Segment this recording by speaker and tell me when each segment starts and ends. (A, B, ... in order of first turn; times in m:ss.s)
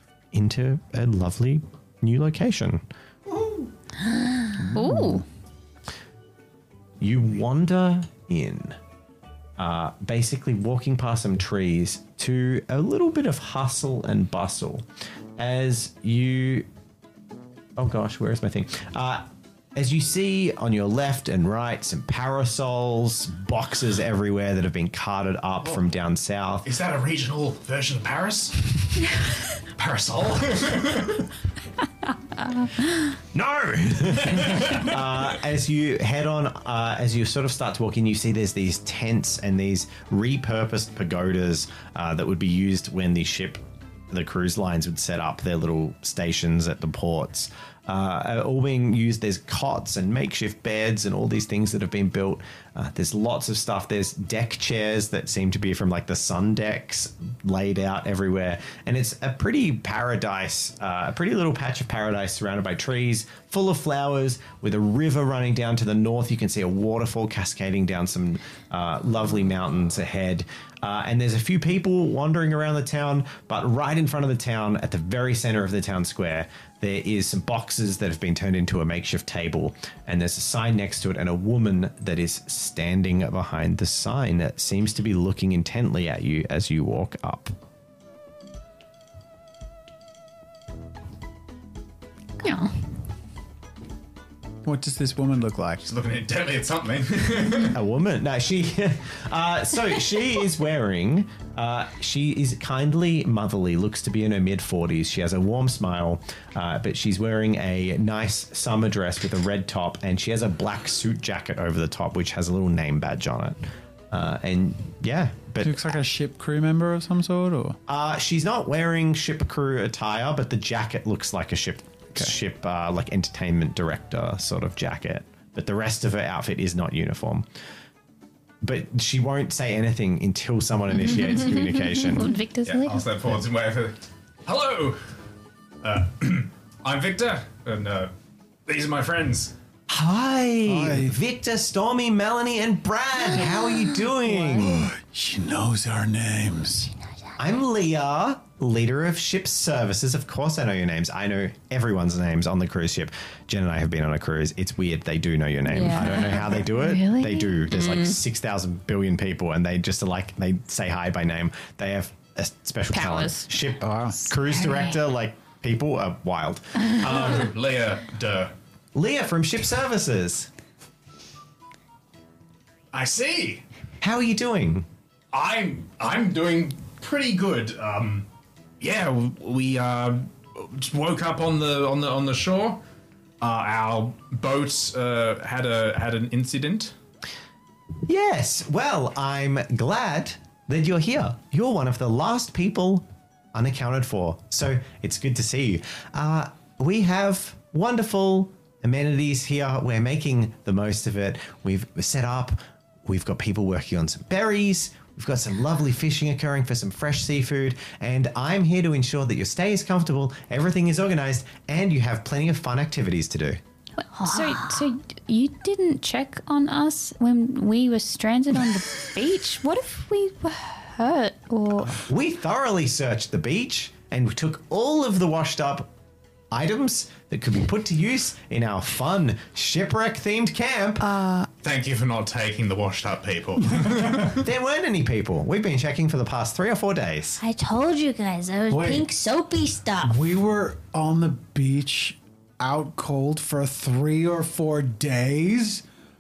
0:00.3-0:02.8 A
0:03.3-0:03.7 B
0:04.6-0:05.2 B
0:04.7-0:05.2 C
0:07.0-0:08.8 A
0:09.6-0:16.7 A
0:17.8-0:26.7 A
0:26.6-0:29.2 D
0:29.7-0:31.3 D
0:32.4-0:33.2 C
0:33.3-1:27.5 A
0:34.2-0:34.9 D
1:32.4-1:32.8 C
1:34.6-1:35.8 B
1:35.8-1:37.8 D
1:37.7-1:55.9 A
1:55.6-1:57.8 B
1:57.9-2:07.4 A
2:08.6-2:12.3 A
2:12.0-2:13.1 C
2:12.6-2:15.0 D
2:15.8-2:18.1 D
2:18.7-2:19.5 D
2:19.9-2:24.9 A
2:20.7-2:21.2 B
2:23.6-2:23.9 E
2:24.4-2:26.9 B
2:27.4-2:47.4 A
2:35.6-2:38.2 C
2:42.9-2:43.5 C
2:43.8-2:44.2 B
2:44.3-2:44.9 C
2:46.9-2:48.5 D
2:48.9-2:50.5 A
2:52.9-2:53.6 D
2:54.0-2:54.9 A
2:55.3-2:58.2 D
2:58.8-3:02.8 D
3:03.4-3:06.9 D
3:08.0-3:33.6 A
3:34.0-3:42.0 C
3:34.2-3:34.8 E
3:42.0-3:45.9 A
3:46.5-3:51.1 A
3:51.0-3:51.5 C
3:51.6-3:54.4 D
3:54.4-3:57.4 A
3:57.4-4:00.2 E
3:58.7-3:59.1 B
4:00.0-4:05.8 B